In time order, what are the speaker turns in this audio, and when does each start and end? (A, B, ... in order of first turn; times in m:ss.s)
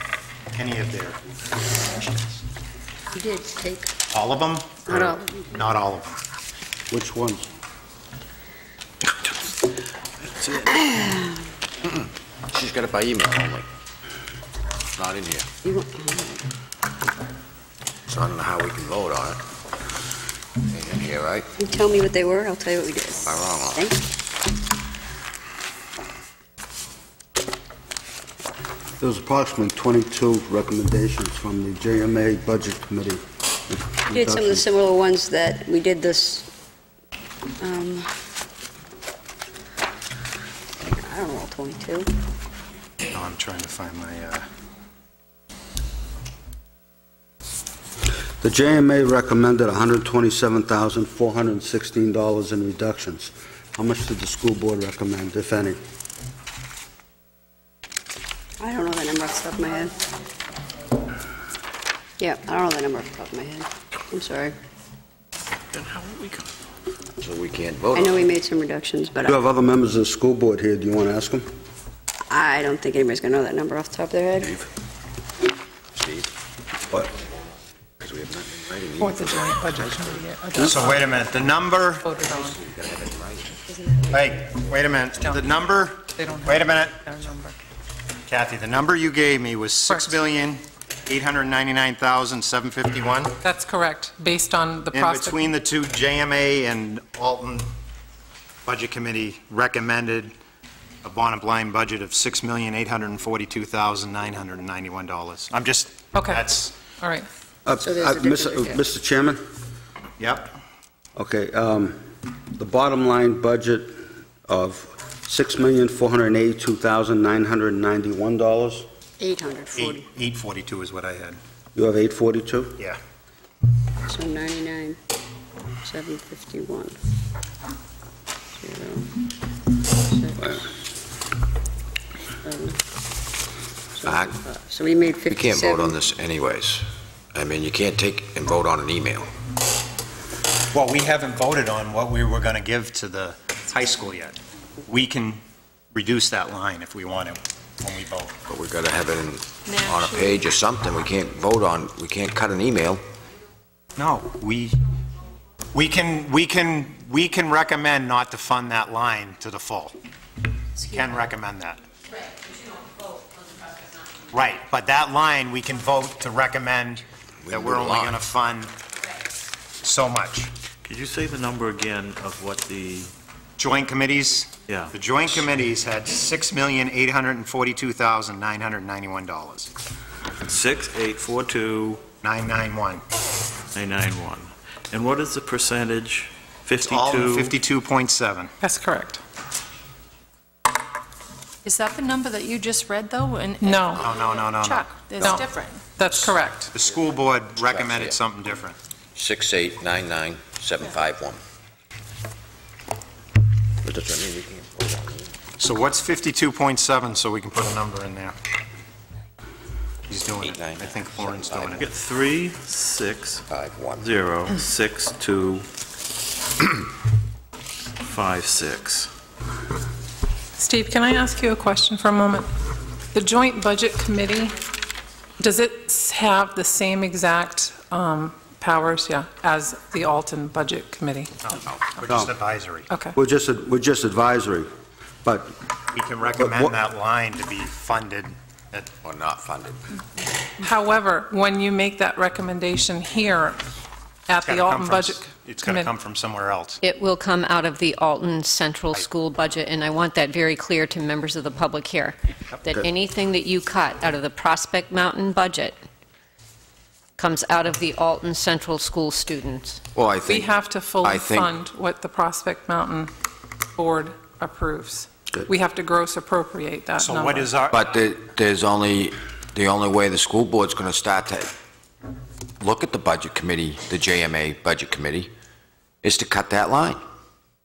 0:00.5-0:02.4 A
0:03.1-0:03.9 B
0:04.1-0:06.2 A
0:04.9-0:05.4 B
0:06.9-0:07.4 C
0:10.7-0:11.3 B
0:11.8-0:13.7 D
0:15.0-0:15.5 D
0:15.6-0:16.4 B
0:18.1-0:19.4 D
0:20.7-0:21.5 D
0:21.6-0:24.0 B
0:23.1-0:23.8 D
0:29.0-0:34.7 C
0:34.1-0:36.5 B
0:37.6-0:38.1 B
0:40.8-0:42.1 B
0:43.1-0:44.5 A
0:48.4-0:55.8 C
0:58.6-0:59.9 B
1:02.2-1:04.5 B
1:05.9-1:06.4 E
1:07.2-1:08.3 D
1:07.9-1:09.4 B
1:09.3-1:11.5 C
1:12.3-1:14.6 B
1:15.9-1:16.3 D
1:18.0-1:20.6 D
1:19.0-1:20.8 F
1:20.6-1:22.1 A
1:22.0-1:22.6 F
1:22.2-1:23.6 D
1:24.1-1:27.0 A
1:26.2-1:27.5 F
1:28.3-1:33.4 A
1:33.4-1:35.5 F
1:34.9-1:37.7 A
1:38.6-1:40.3 A
1:41.0-1:46.8 A
1:46.1-1:46.4 F
1:47.0-1:47.3 F
1:47.6-1:49.4 C
1:47.8-1:48.8 B
1:50.2-1:50.6 A
1:51.2-1:52.0 C
1:52.5-1:58.9 C
1:59.2-2:00.1 B
1:59.8-2:01.4 A
2:01.7-2:02.8 C
2:04.1-2:05.0 B
2:05.8-2:07.0 B
2:08.6-2:09.1 B
2:10.0-2:10.7 B
2:12.4-2:12.8 B
2:14.0-2:16.0 B
2:14.0-2:14.4 D
2:15.3-2:19.3 D
2:20.7-2:28.4 A
2:28.5-2:33.0 D
2:29.6-2:30.4 G
2:34.0-2:34.8 A
2:35.7-2:40.0 A
2:40.9-2:41.8 A
2:44.3-2:48.7 A
2:47.5-2:48.2 D
2:49.8-2:50.5 A
2:50.8-2:53.1 E
2:53.6-2:59.7 A
3:00.5-3:02.0 E
3:02.2-3:03.0 A
3:03.7-3:07.4 E
3:06.8-3:08.5 A
3:08.6-3:09.2 F
3:11.6-3:15.8 G
3:13.6-3:14.0 F
3:14.0-3:15.0 A
3:15.2-3:16.7 F
3:16.7-3:18.8 A
3:17.6-3:18.2 D
3:19.1-3:21.4 D
3:23.8-3:25.3 D
3:25.6-3:28.4 A
3:30.1-3:31.9 A
3:30.1-3:31.8 D
3:31.8-3:33.4 E
3:33.5-3:34.0 D
3:34.0-3:35.6 E
3:38.0-3:39.1 E
3:40.6-3:42.5 F
3:43.1-3:44.5 F
3:45.4-3:51.3 F
3:51.4-3:52.9 A
3:51.6-3:51.9 D
3:52.9-3:53.1 F
3:53.1-3:54.7 C
3:55.2-3:55.6 C
3:55.9-3:59.0 A
3:56.4-3:56.7 C
3:59.0-3:59.8 D
4:00.6-4:03.6 F
4:04.3-4:05.9 F
4:04.4-4:06.8 A
4:06.8-4:15.8 H
4:17.2-4:19.8 H
4:19.9-4:20.5 D
4:20.3-4:23.1 F
4:21.0-4:21.5 D
4:23.8-4:27.5 F
4:27.0-4:28.1 A
4:27.7-4:31.5 D
4:32.6-4:35.3 D
4:36.0-4:37.0 D